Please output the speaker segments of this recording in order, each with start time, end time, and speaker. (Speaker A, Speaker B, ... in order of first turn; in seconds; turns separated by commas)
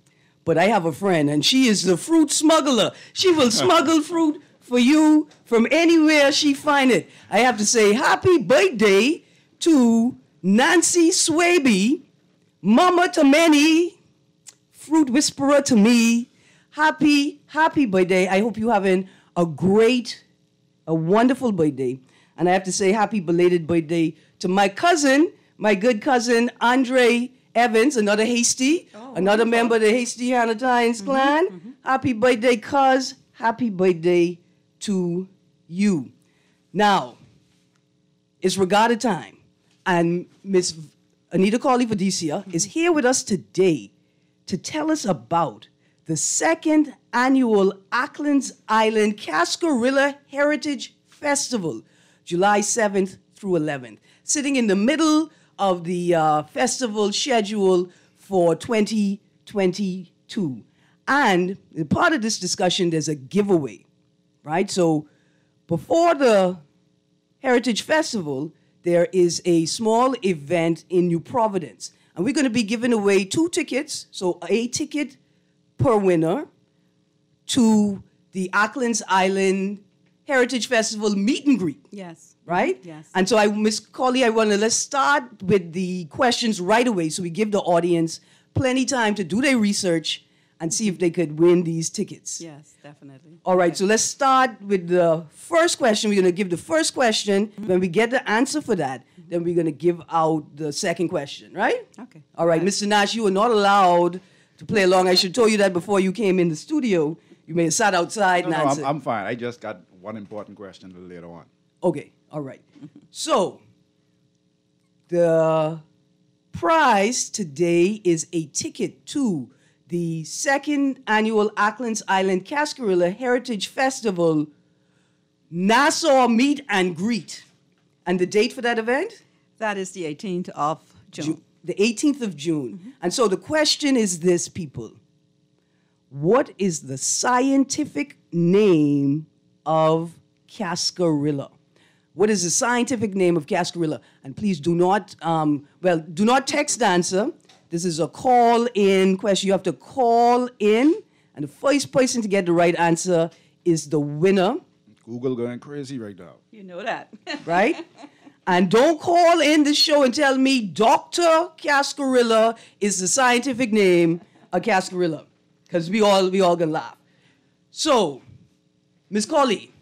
Speaker A: 0.4-12.0, Speaker A: 12.6-13.9, Speaker A: 14.7-20.2, Speaker A: 20.9-36.1, Speaker B: 28.9-29.7, Speaker B: 31.0-31.7, Speaker A: 36.7-37.2, Speaker A: 38.4-43.9, Speaker A: 44.5-63.8, Speaker A: 64.4-65.1, Speaker A: 65.7-66.6, Speaker A: 67.4-75.2, Speaker A: 75.8-76.5, Speaker A: 77.5-81.8, Speaker B: 81.9-83.1, Speaker A: 82.5-92.4, Speaker B: 92.4-93.8, Speaker A: 93.4-108.9, Speaker B: 102.0-102.7, Speaker C: 108.4-111.5, Speaker A: 111.8-113.6, Speaker A: 115.1-115.8, Speaker A: 116.5-124.5, Speaker A: 125.5-127.4, Speaker A: 128.0-129.2, Speaker B: 129.6-131.4, Speaker A: 131.2-135.0, Speaker A: 136.1-141.5, Speaker A: 142.1-154.6, Speaker C: 155.0-156.4, Speaker B: 156.5-157.7, Speaker A: 157.4-157.8, Speaker A: 158.4-167.0, Speaker A: 167.7-168.2, Speaker A: 169.1-169.7